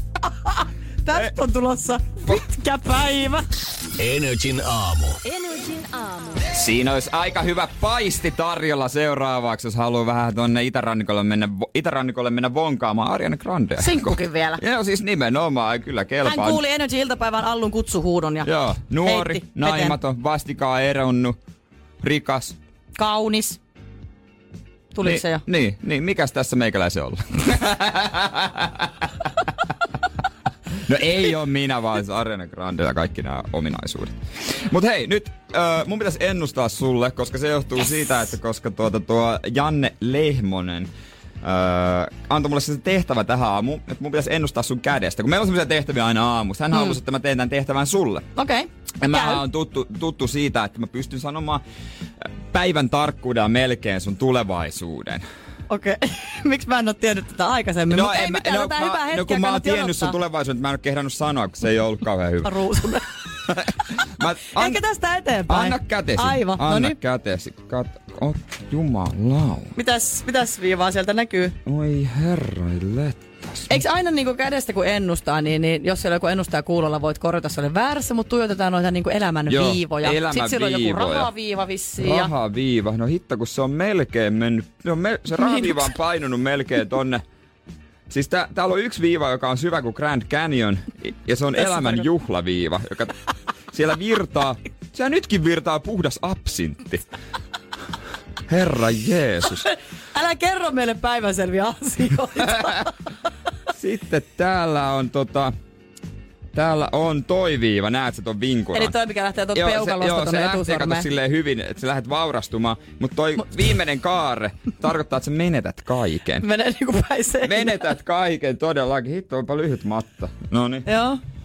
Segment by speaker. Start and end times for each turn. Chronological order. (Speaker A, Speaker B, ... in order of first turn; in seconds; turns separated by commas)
Speaker A: 0.2-3.5, Speaker B: 4.0-6.3, Speaker C: 6.5-16.6, Speaker A: 13.8-14.6, Speaker A: 16.2-18.5, Speaker C: 18.4-21.4, Speaker A: 19.0-20.0, Speaker C: 22.0-22.6, Speaker A: 23.0-23.6, Speaker A: 24.9-25.4, Speaker C: 25.0-29.1, Speaker C: 30.9-40.9, Speaker C: 41.4-48.3, Speaker A: 48.4-49.4, Speaker C: 49.0-51.6, Speaker C: 52.2-55.2, Speaker A: 55.7-60.2, Speaker C: 57.9-62.5, Speaker A: 62.4-63.0, Speaker C: 63.5-64.8, Speaker A: 64.5-67.0, Speaker C: 65.5-69.8, Speaker A: 69.8-71.6, Speaker C: 71.7-73.8, Speaker A: 73.7-82.3, Speaker C: 79.5-81.3, Speaker C: 82.0-87.2, Speaker A: 85.4-85.7, Speaker C: 88.1-93.2, Speaker A: 91.6-92.0, Speaker C: 93.7-97.1, Speaker C: 98.5-99.7, Speaker A: 99.6-102.9, Speaker C: 102.5-102.8, Speaker C: 103.7-105.5, Speaker C: 106.5-108.9, Speaker A: 108.7-111.1, Speaker C: 109.5-116.5, Speaker A: 116.4-117.8, Speaker C: 117.4-120.9, Speaker A: 120.9-121.2